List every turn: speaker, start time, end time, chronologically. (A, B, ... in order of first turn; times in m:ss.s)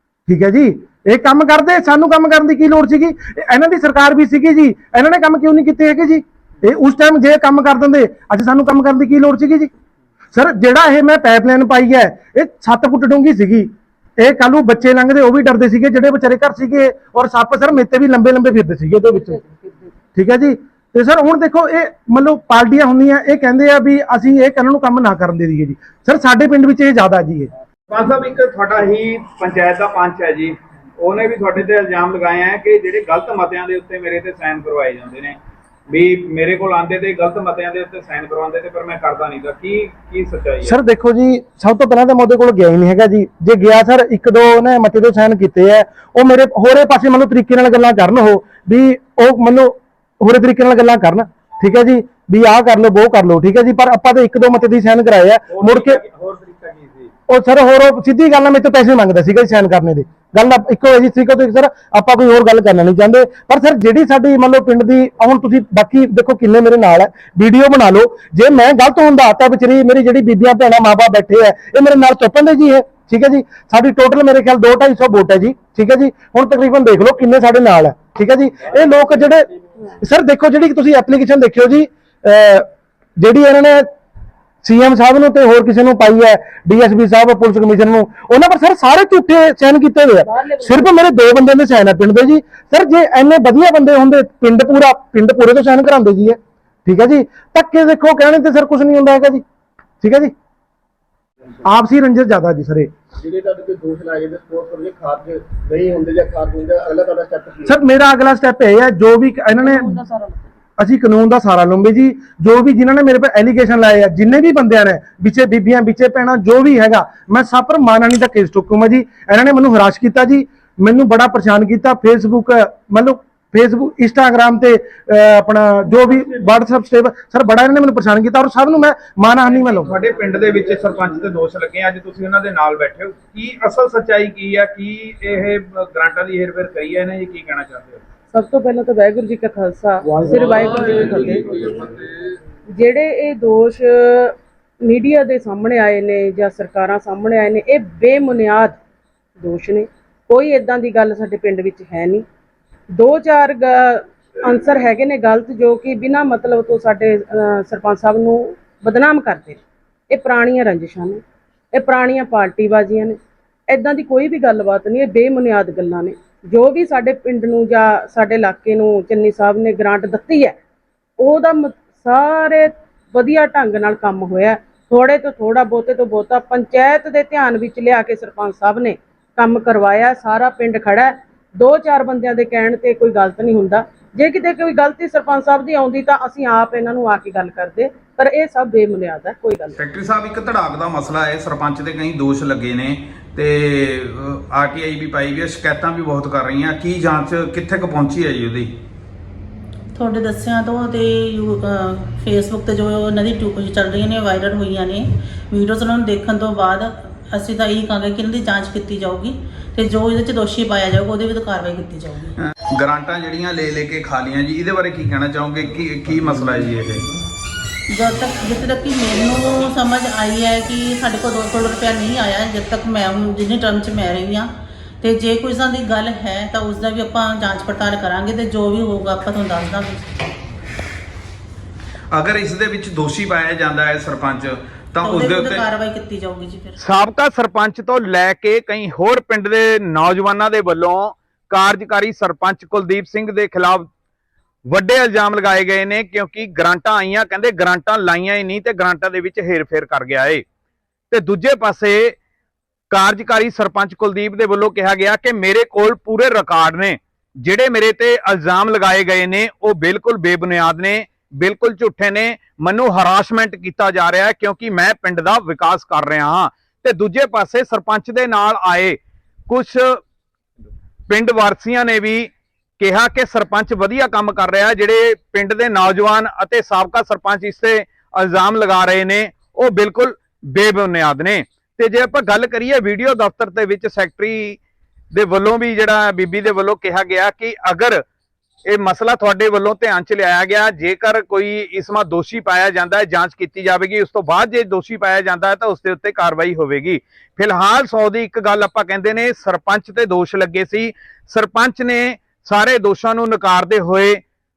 0:00.3-0:09.7 A
0:10.3-0:19.4 A
0:20.2-0:27.5 A
0:27.9-0:35.4 B
0:35.9-0:40.8 B
0:40.6-0:56.0 A
0:55.5-0:57.1 B
0:57.3-1:19.5 A
1:18.6-1:19.8 C
1:20.0-1:22.7 A
1:23.2-1:23.9 A
1:24.6-1:39.4 A
1:30.3-1:30.7 D
1:40.0-1:40.3 A
1:41.6-1:42.9 A
1:43.2-1:47.8 C
1:47.6-1:50.0 A
1:50.8-2:10.0 A
2:09.5-2:18.0 B
2:18.3-2:21.4 D
2:20.8-2:21.7 C
2:21.0-2:21.5 B
2:22.8-2:23.8 D
2:24.9-2:28.8 D
2:29.4-2:32.2 D
2:33.0-2:33.7 D
2:34.5-2:39.6 D
2:40.1-2:41.2 D
2:41.8-2:43.2 D
2:43.7-2:50.6 D
2:51.2-3:09.8 D
3:09.8-3:18.7 B
3:20.0-3:25.0 E
3:25.5-3:32.3 E
3:32.8-3:37.1 B
3:38.0-3:44.4 E
3:45.0-3:50.1 E
3:52.1-3:55.6 B
3:55.0-3:56.8 E
3:56.8-4:03.9 B
4:04.7-4:10.4 B
4:11.1-4:12.2 B
4:12.9-4:29.0 B
4:29.5-4:30.0 B
4:31.1-4:44.6 B
4:45.1-4:48.0 B
4:48.7-5:04.2 B